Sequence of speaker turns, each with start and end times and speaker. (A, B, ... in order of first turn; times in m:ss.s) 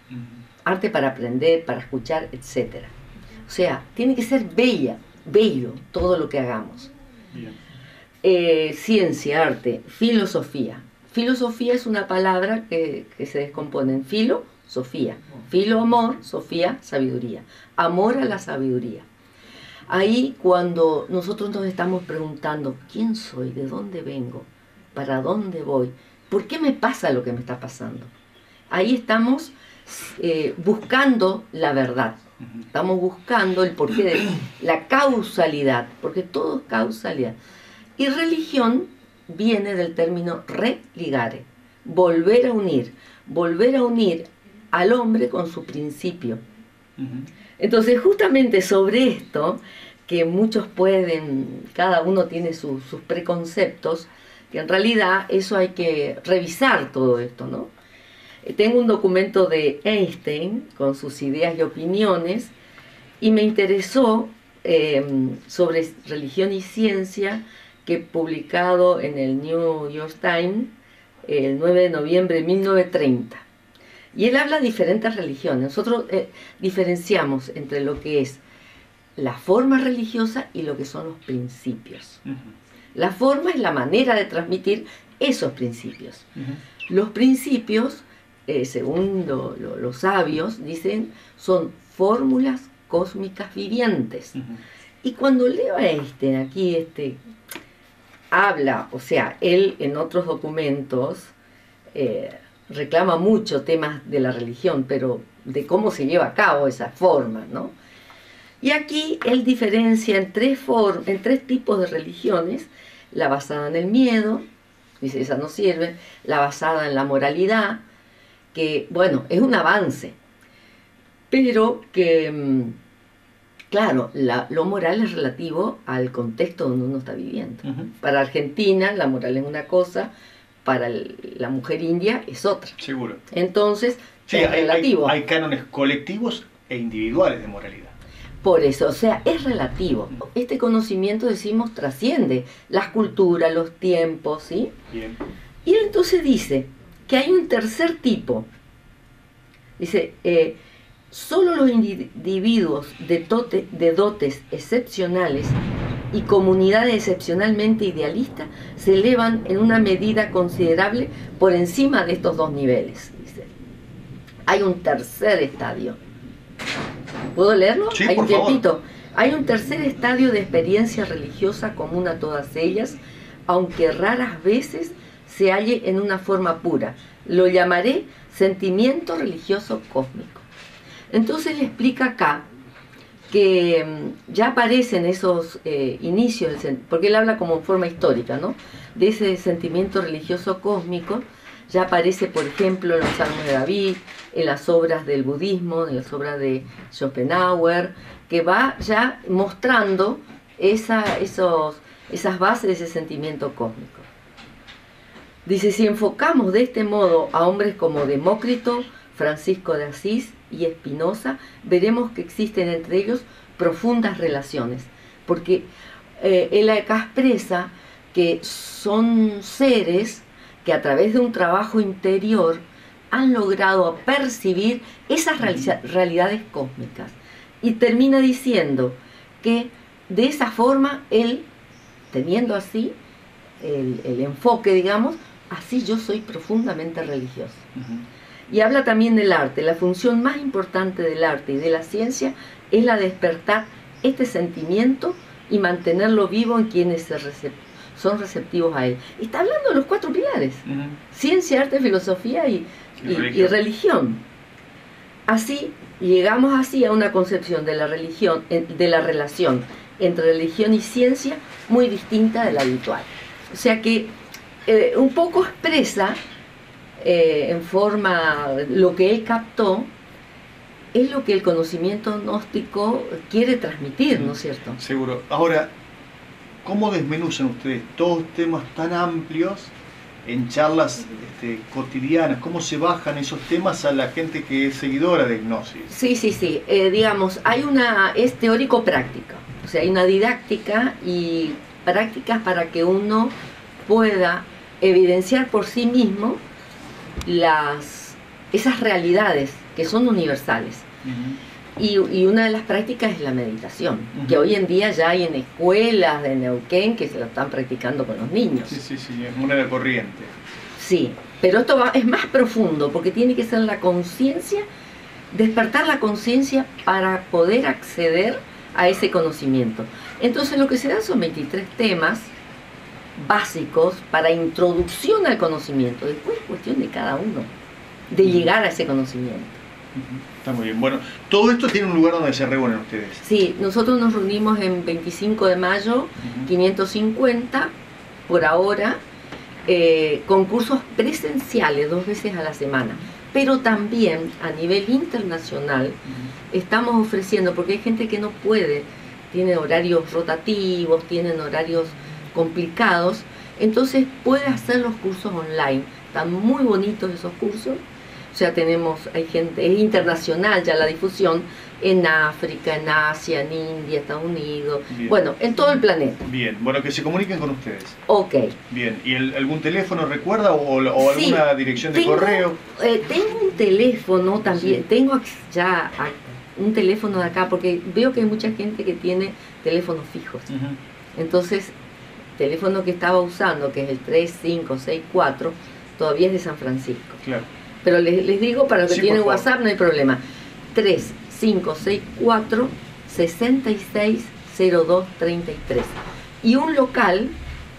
0:00.1-0:00.4 A
0:00.6-0:02.9 B
0:03.5-0:06.9 B
0:07.3-0:07.6 A
0:08.2-0:19.0 B
0:19.9-0:28.1 B
0:28.7-0:37.3 B
0:38.0-0:46.4 B
0:47.0-0:47.3 A
0:47.6-0:57.7 B
0:58.4-1:02.5 B
1:03.2-1:10.7 B
1:11.2-1:13.4 B
1:14.1-1:18.4 B
1:19.2-1:22.2 B
1:22.2-1:22.5 A
1:22.9-1:26.3 B
1:26.9-1:34.4 B
1:35.0-1:37.2 B
1:38.3-1:41.3 B
1:41.9-1:47.7 B
1:48.6-1:54.4 B
1:55.0-1:57.8 B
1:58.5-2:00.2 B
2:01.3-2:02.8 B
2:03.7-2:10.1 B
2:07.6-2:07.9 A
2:10.6-2:12.8 B
2:12.8-2:13.2 A
2:13.3-2:15.2 B
2:14.3-2:17.9 A
2:18.4-2:24.7 B
2:24.9-2:25.2 A
2:25.6-2:28.5 B
2:29.8-2:30.6 B
2:31.1-2:35.6 B
2:36.1-2:43.5 B
2:44.4-2:46.0 B
2:47.3-3:00.4 B
2:47.9-2:48.6 A
3:01.1-3:02.4 B
3:03.3-3:24.1 B
3:25.4-3:51.5 B
3:52.1-3:53.0 B
3:53.6-3:57.7 B
3:57.8-3:58.0 A
3:58.5-4:14.2 B
4:10.6-4:11.0 A
4:13.0-4:13.5 A
4:15.3-4:24.1 B
4:24.6-4:26.2 B
4:27.0-4:29.9 B
4:30.9-4:34.8 B
4:34.1-4:35.7 A
4:36.6-4:45.9 A
4:45.9-4:53.3 B
4:53.8-4:56.4 B
4:57.2-5:00.8 B
5:01.0-5:01.4 A
5:01.8-5:08.8 B
5:04.1-5:04.5 A
5:08.7-5:10.3 A
5:10.8-5:14.6 B
5:15.3-5:22.3 B
5:23.2-5:27.5 B
5:28.1-5:29.6 B
5:29.9-5:33.2 A
5:33.2-5:37.7 B
5:36.2-5:36.5 A
5:38.3-5:39.0 B
5:39.6-5:46.0 B
5:46.5-6:06.3 B
6:04.9-6:05.2 A
6:06.2-6:08.0 A
6:08.1-6:08.6 B
6:08.7-6:12.6 A
6:11.0-6:20.5 B
6:20.5-6:20.8 A
6:21.2-6:21.7 B
6:22.4-6:27.2 B
6:27.2-6:27.5 A
6:27.8-6:30.2 B
6:28.9-6:29.4 A
6:30.7-6:37.4 B